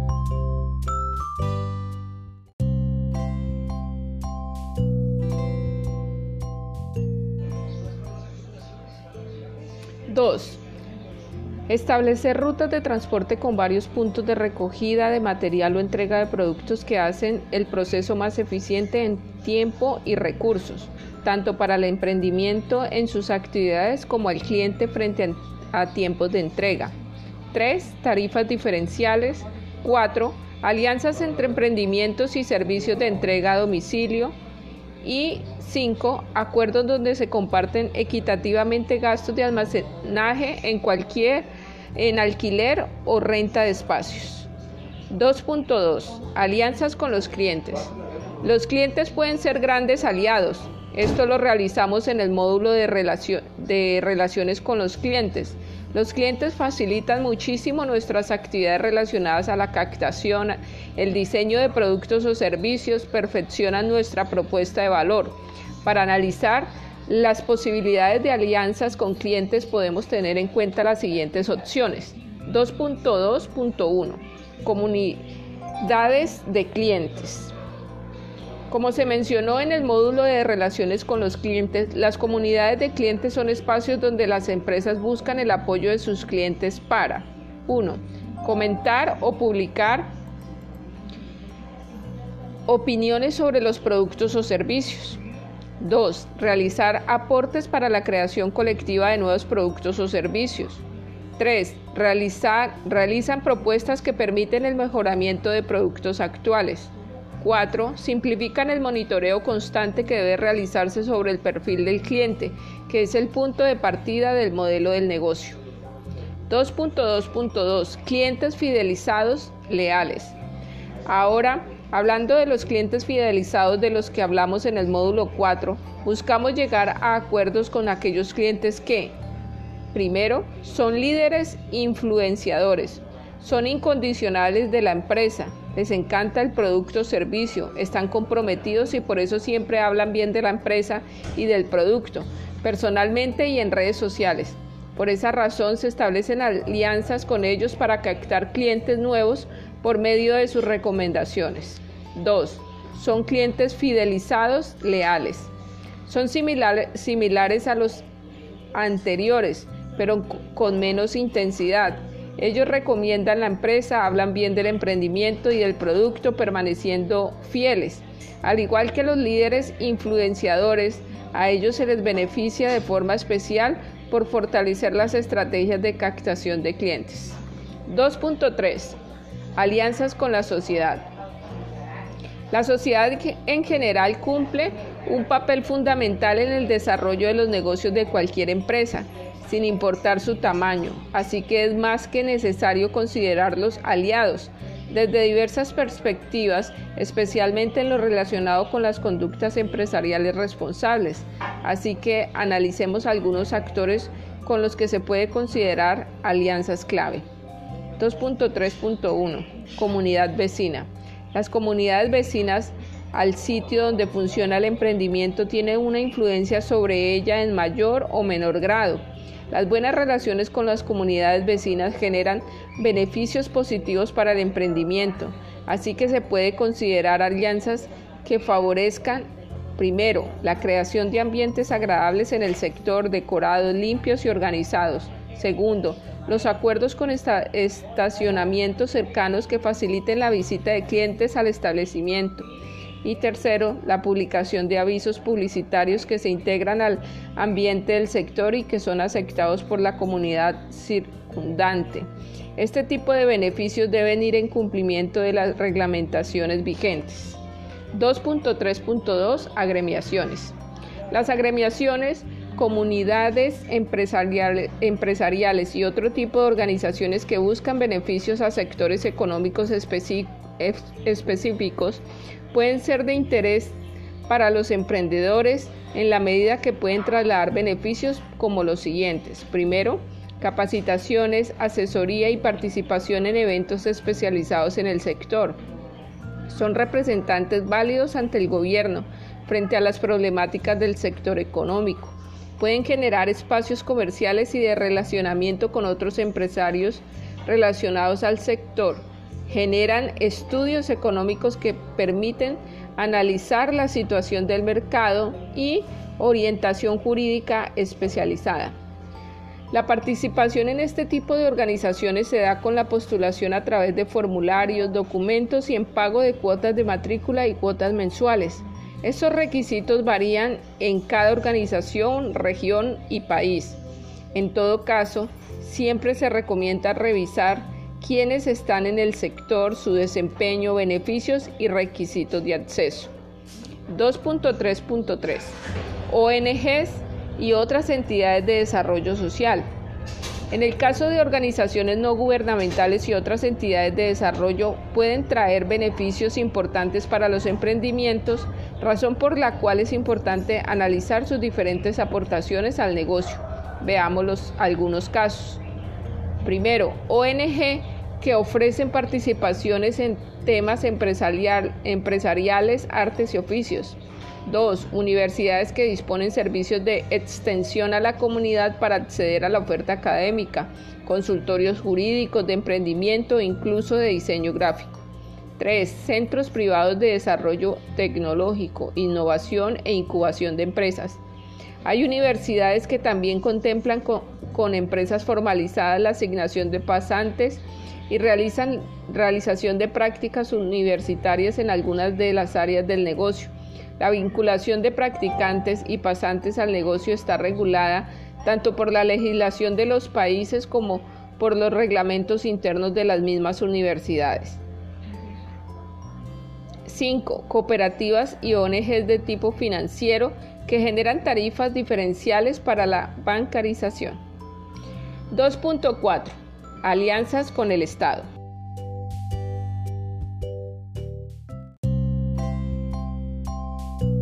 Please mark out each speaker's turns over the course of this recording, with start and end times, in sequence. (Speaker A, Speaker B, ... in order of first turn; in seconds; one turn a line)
Speaker A: 10.1-10.6
Speaker A: 11.7-26.9
Speaker A: 27.5-34.3
Speaker A: 35.0-44.5
Speaker A: 45.1-75.3
Speaker A: 75.8-77.5
Speaker A: 78.7-90.1
Speaker A: 92.7-95.2
Speaker A: 95.8-100.8
Speaker A: 101.4-115.6
Speaker A: 116.5-120.3
Speaker A: 121.0-129.1
Speaker A: 129.9-155.5
Speaker A: 156.1-158.0
Speaker A: 158.7-179.0
Speaker A: 179.6-181.1
Speaker A: 182.5-207.2
Speaker A: 208.0-242.5
Speaker A: 243.0-257.4
Speaker A: 257.9-260.5
Speaker A: 261.1-273.8
Speaker A: 274.3-285.6
Speaker A: 286.5-308.8
Speaker A: 309.7-323.8
Speaker A: 324.3-333.1
Speaker A: 333.9-335.6
Speaker A: 336.1-339.6
Speaker A: 340.5-355.6
Speaker A: 356.4-374.9
Speaker A: 375.6-381.2
Speaker A: 381.8-404.6
Speaker A: 406.9-414.2
Speaker A: 415.3-418.3